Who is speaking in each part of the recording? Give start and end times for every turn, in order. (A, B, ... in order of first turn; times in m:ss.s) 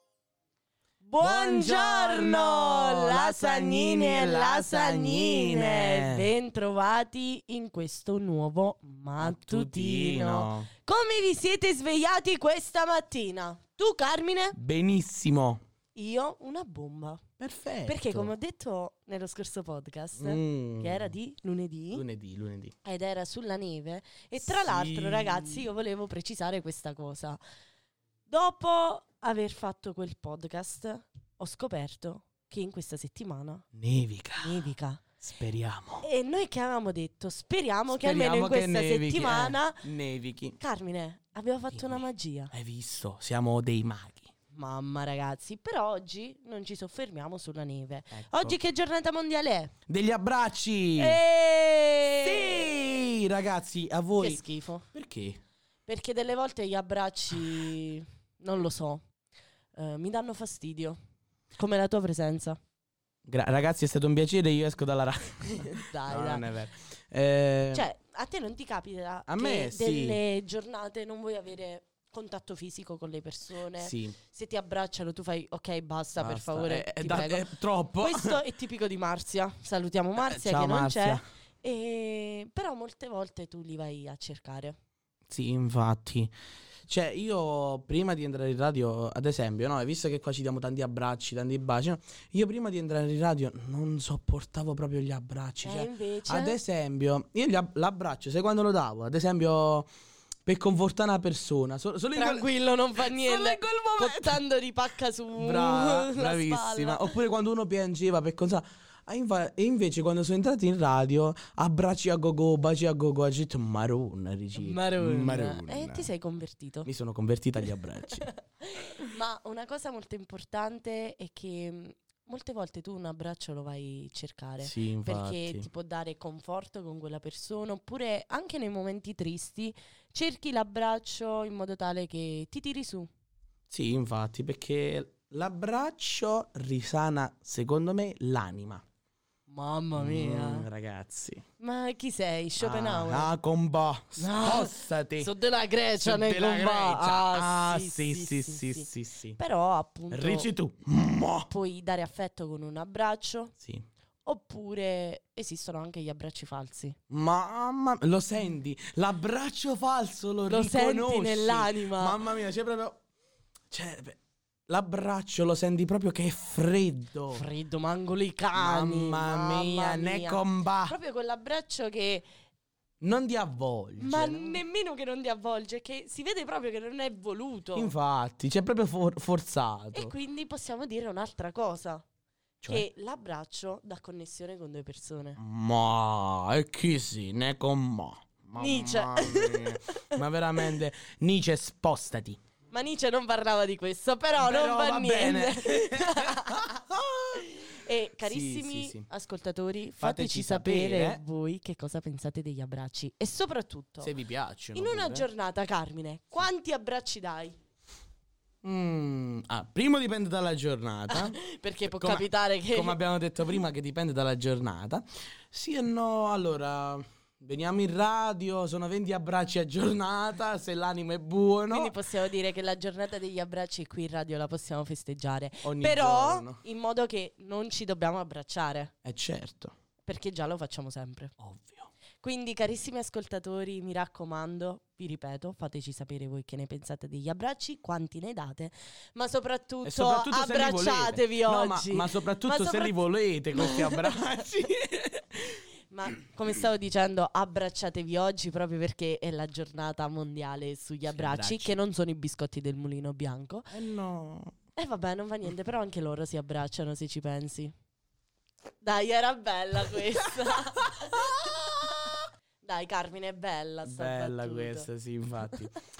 0:01.0-0:14.6 A
0:01.2-0:06.3 B
0:09.2-0:10.7 B
0:14.6-0:15.6 B
0:16.0-0:17.2 A
0:17.4-0:18.3 B
0:17.9-0:22.0 A
0:20.2-0:21.1 B
0:21.9-0:22.7 B
0:22.8-0:27.4 A
0:24.4-0:25.7 B
0:28.3-0:33.7 A
0:33.8-0:36.1 B
0:34.4-0:35.0 A
0:36.0-0:39.9 A
0:37.9-0:40.6 B
0:40.6-0:42.5 A
0:41.7-0:44.3 B
0:44.5-0:49.7 A
0:48.1-0:48.6 B
0:49.9-0:51.2 B
0:51.0-0:52.7 A
0:52.2-0:54.4 B
0:54.2-0:54.9 A
0:54.9-0:55.4 B
0:55.9-0:59.0 A
0:59.8-1:01.0 A
1:01.6-1:02.6 A
1:03.3-1:07.9 B
1:05.6-1:06.5 A
1:07.7-1:24.8 A
1:09.3-1:10.2 B
1:13.8-1:14.2 B
1:16.2-1:18.4 B
1:20.2-1:21.2 B
1:25.3-1:26.3 B
1:26.9-1:39.9 B
1:35.6-1:36.6 A
1:40.5-1:44.4 B
1:42.1-1:47.1 A
1:45.4-1:56.1 B
1:54.6-1:56.9 A
1:56.9-1:58.3 B
1:58.1-2:13.1 A
2:04.6-2:05.7 B
2:13.7-2:18.8 B
2:19.5-2:20.7 A
2:20.0-2:21.4 B
2:21.6-2:23.3 A
2:22.6-2:25.3 B
2:24.2-2:30.5 A
2:26.0-2:29.4 B
2:30.1-2:31.5 B
2:31.5-2:33.5 A
2:34.2-2:37.0 A
2:37.1-2:43.0 B
2:40.5-2:42.2 A
2:43.7-2:47.5 B
2:47.3-2:52.3 A
2:48.6-2:51.0 B
2:53.0-2:54.6 B
2:54.0-2:57.9 A
2:57.8-3:00.1 B
2:59.9-3:02.0 A
3:02.6-3:05.4 A
3:05.4-3:12.4 B
3:08.6-3:10.7 A
3:12.7-3:16.7 A
3:14.4-3:17.5 B
3:17.4-3:24.1 A
3:18.2-3:19.1 B
3:20.0-3:21.2 B
3:24.0-3:25.3 B
3:24.7-3:27.6 A
3:28.6-3:42.0 B
3:31.1-3:33.0 A
3:41.7-3:48.9 A
3:45.6-3:46.6 B
3:49.0-3:49.7 B
3:50.0-3:51.3 A
3:51.4-3:51.9 B
3:52.2-4:03.0 A
3:59.8-4:05.6 B
4:03.5-4:04.5 A
4:05.9-4:13.7 A
4:11.1-4:11.8 B
4:13.7-4:14.5 B
4:14.8-4:17.7 A
4:18.8-4:24.9 A
4:23.9-4:25.8 B